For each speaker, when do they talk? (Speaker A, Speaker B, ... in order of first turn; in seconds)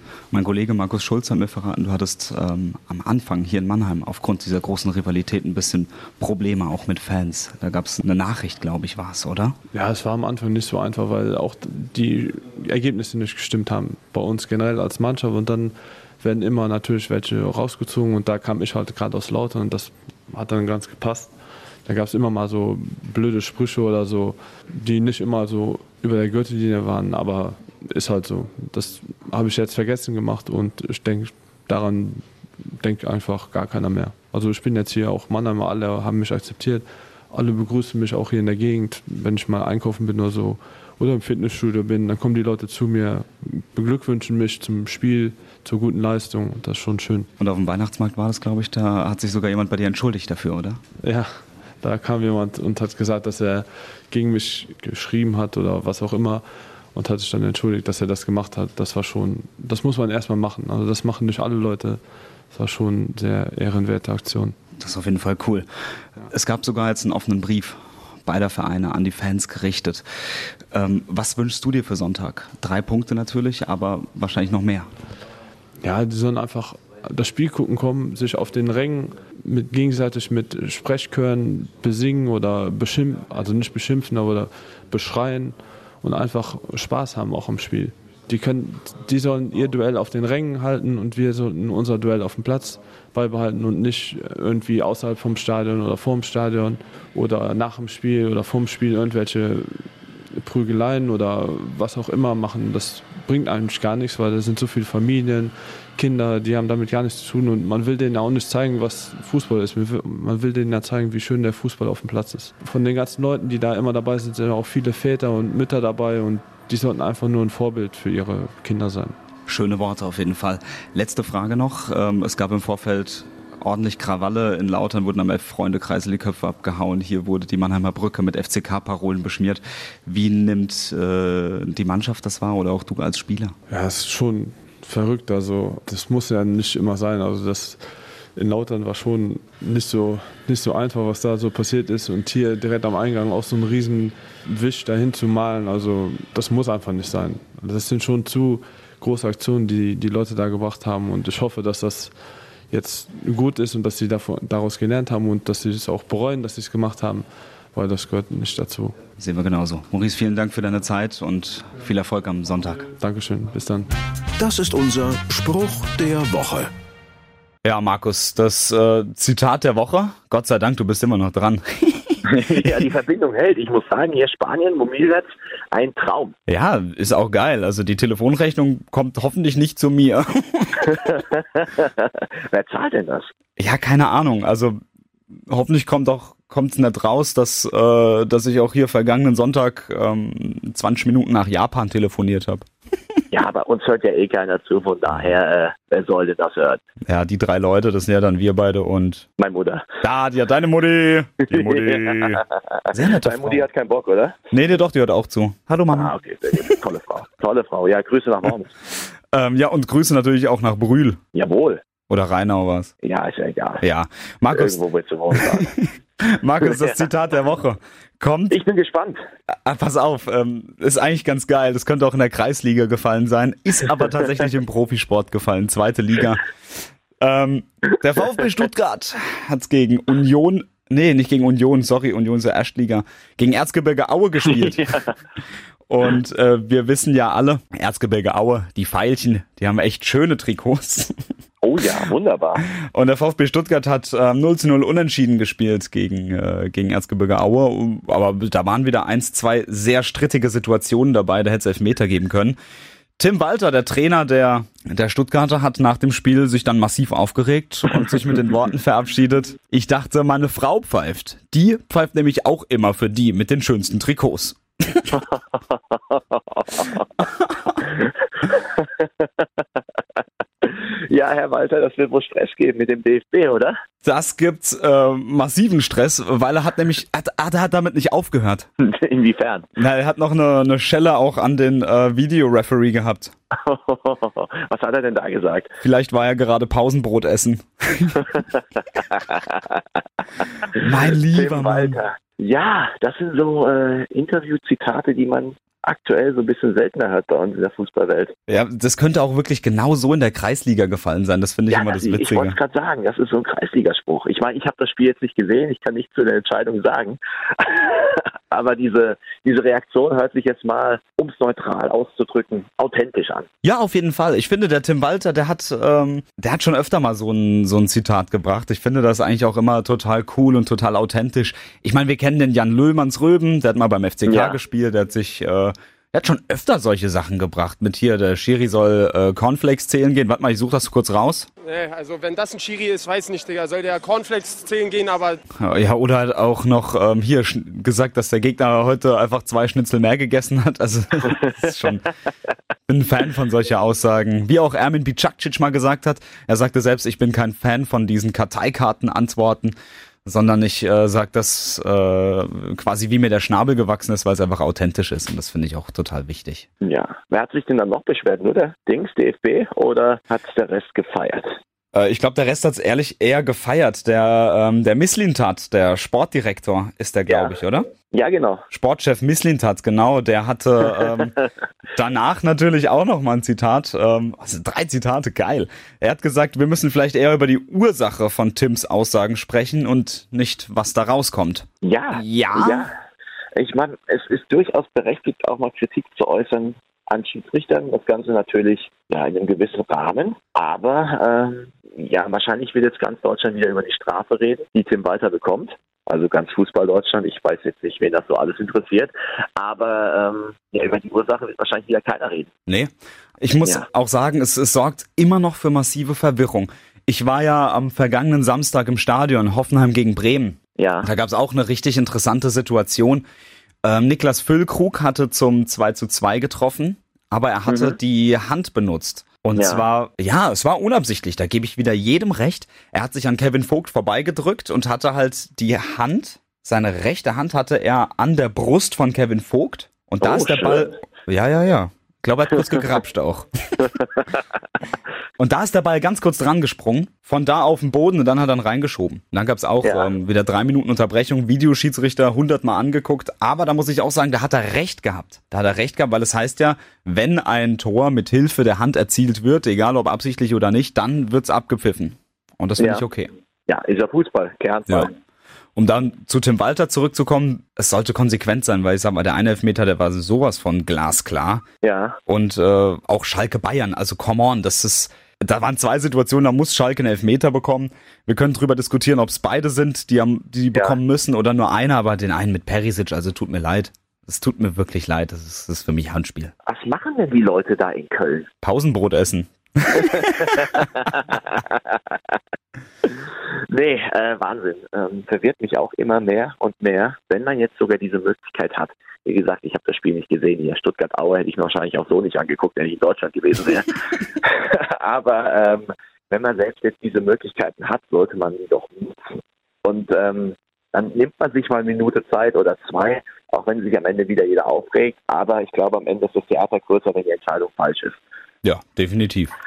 Speaker A: 0.3-9.6, 47.4-50.8, 64.8-65.7, 66.3-74.9, 119.5-133.5, 159.2-162.9, 167.6-172.9, 176.5-181.2, 183.6-184.8, 185.3-192.7, 195.1-195.3, 197.1-199.3, 200.0-203.7, 204.5-206.1, 209.3-211.2, 212.1-212.9, 213.8-214.8, 215.3-218.6, 219.5-226.4, 227.2-234.9, 235.9-241.2, 242.8-252.6, 253.2-265.1, 267.2-267.7, 274.0-278.7, 279.8-283.3, 285.8-288.2, 290.7-292.0, 298.5-302.6, 313.6-331.5, 335.6-342.0, 342.9-356.7, 361.9-367.9, 368.7-371.3, 371.9-382.9, 402.7-413.2, 413.8-433.9, 435.4-453.3, 455.8-461.6, 462.3-476.5, 478.6-480.8, 508.6-509.5
Speaker B: 9.7-21.3, 21.9-47.3, 51.0-64.5, 75.8-119.2, 133.7-137.8, 138.3-152.2, 152.7-158.9, 163.0-163.9
Speaker C: 164.4-166.7
Speaker D: 172.3-176.3, 180.9-183.3, 193.3-196.8, 199.4-199.9, 201.5-202.4, 203.2-204.4, 205.9-208.7, 211.3-211.8, 213.0-213.8, 214.5-215.7, 216.6-217.0, 218.5-219.2, 234.5-235.1, 241.6-242.6, 265.1-267.2, 267.8-269.5, 270.6-273.8, 278.8-279.7, 283.5-285.7, 288.3-298.3, 301.7-313.5, 324.3-324.6, 356.8-361.5, 367.3-367.5, 368.1-368.6, 381.8-382.9, 383.6-402.5, 410.8-411.1, 417.7-417.9, 419.6-419.8, 430.2-430.9, 433.8-434.4, 452.8-453.0, 453.7-455.1, 461.8-462.2, 476.7-478.5, 479.9-482.2, 483.1-508.2
Speaker E: 331.6-335.4